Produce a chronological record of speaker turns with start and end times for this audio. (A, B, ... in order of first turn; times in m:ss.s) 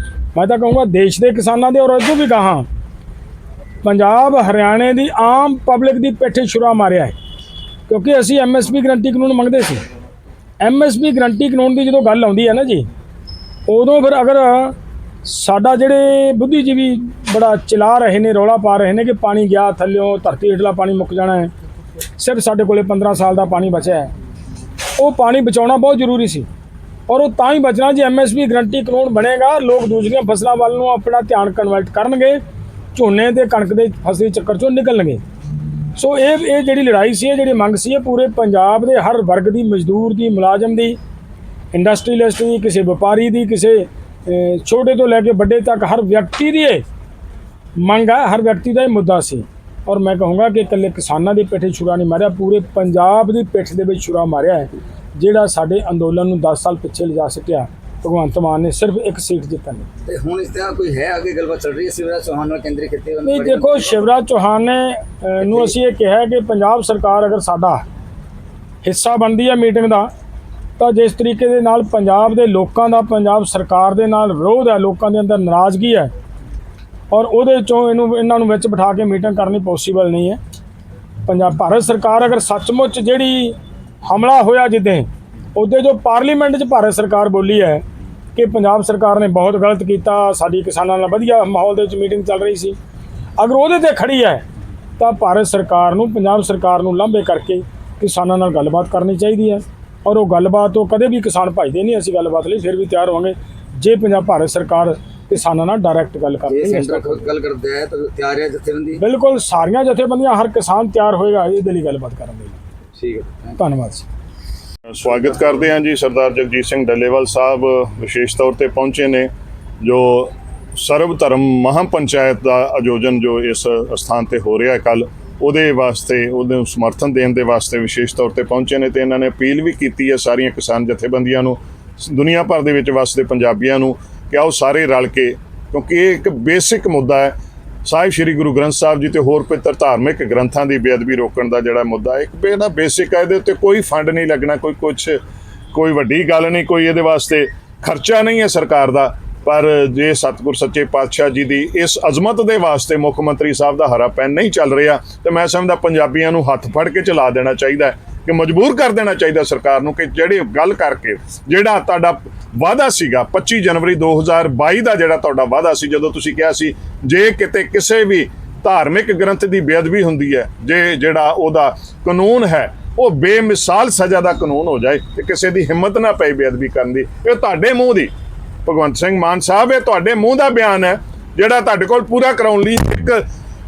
0:00.3-0:02.7 A
0:03.8-0:07.2 A
0:07.9-0:09.8 A
0:10.6-0:12.9 A
0:13.7-0:21.5 A
0:22.2-0:24.1 A
0:25.0-0:26.5 A
0:27.1-0:32.4 A
0:32.9-0:35.2 A
0:35.9-0:41.0 A
0:41.7-0:46.8 A
0:47.8-0:59.9 A
1:00.0-1:04.0 B
1:03.2-1:07.8 A
1:08.8-1:10.1 A
1:10.8-1:16.1 A
1:17.1-1:20.4 A
1:21.3-1:27.8 A
1:28.4-1:32.8 A
1:33.4-1:34.4 A
1:35.0-1:47.3 A
1:46.5-1:49.0 B
1:49.0-1:52.6 A
1:53.0-1:53.6 B
1:53.6-1:54.1 A
1:54.9-1:59.3 C
1:59.8-2:17.3 C
2:17.8-2:25.2 C
2:25.7-2:58.1 C
2:58.7-3:03.2 C